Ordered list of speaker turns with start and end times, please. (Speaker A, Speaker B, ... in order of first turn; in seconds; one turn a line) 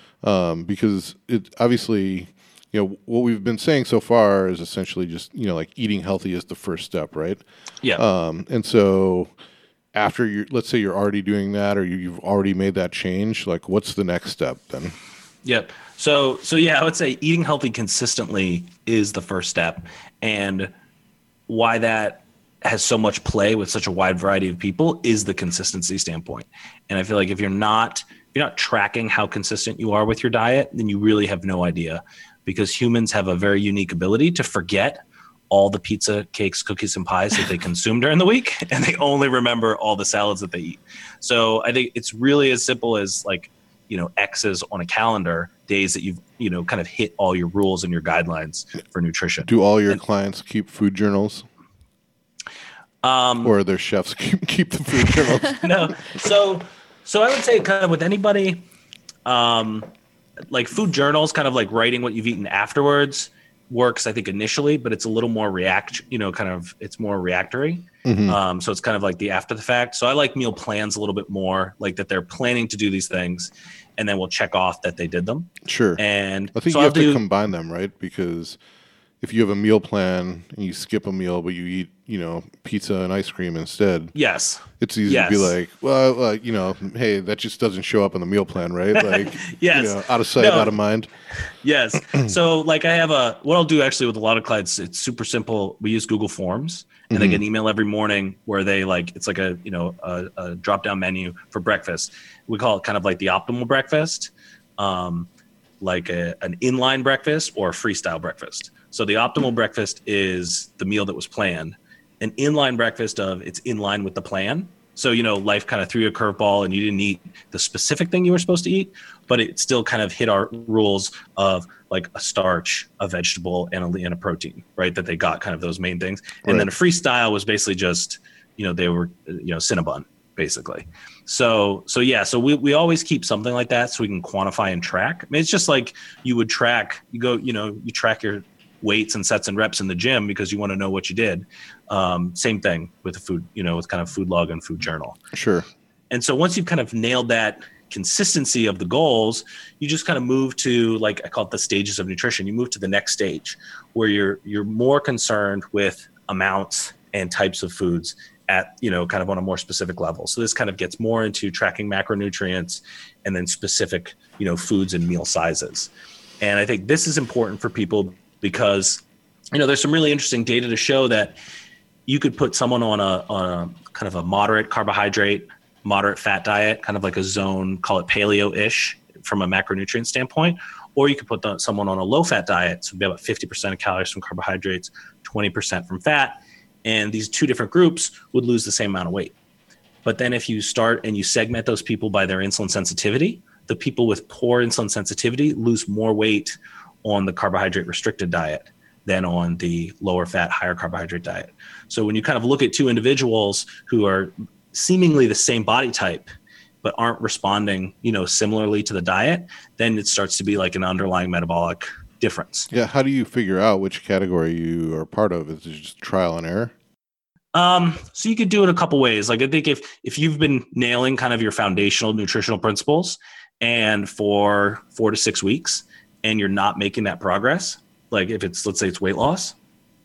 Speaker A: 0.2-7.4
Speaker A: 8.0-9.3
Speaker A: 9.9-14.9
Speaker B: 15.4-20.7
Speaker B: 21.5-50.0
Speaker A: 49.5-51.5
Speaker B: 53.0-53.5
Speaker A: 53.4-55.6
Speaker B: 55.4-58.6
Speaker B: 59.2-59.9
Speaker B: 60.5-77.2
Speaker A: 68.0-68.4
Speaker A: 75.6-76.0
Speaker A: 76.5-78.6
Speaker A: 79.2-84.1
Speaker B: 84.1-85.5
Speaker A: 84.8-91.1
Speaker B: 89.0-90.8
Speaker B: 91.4-105.3
Speaker A: 97.1-97.4
Speaker B: 105.8-145.2
Speaker A: 145.3-145.7
Speaker B: 146.1-169.0
Speaker B: 169.5-171.4
Speaker B: 172.1-189.3
Speaker B: 190.0-206.3
Speaker B: 206.8-212.7
Speaker A: 212.7-216.7
Speaker B: 217.5-229.6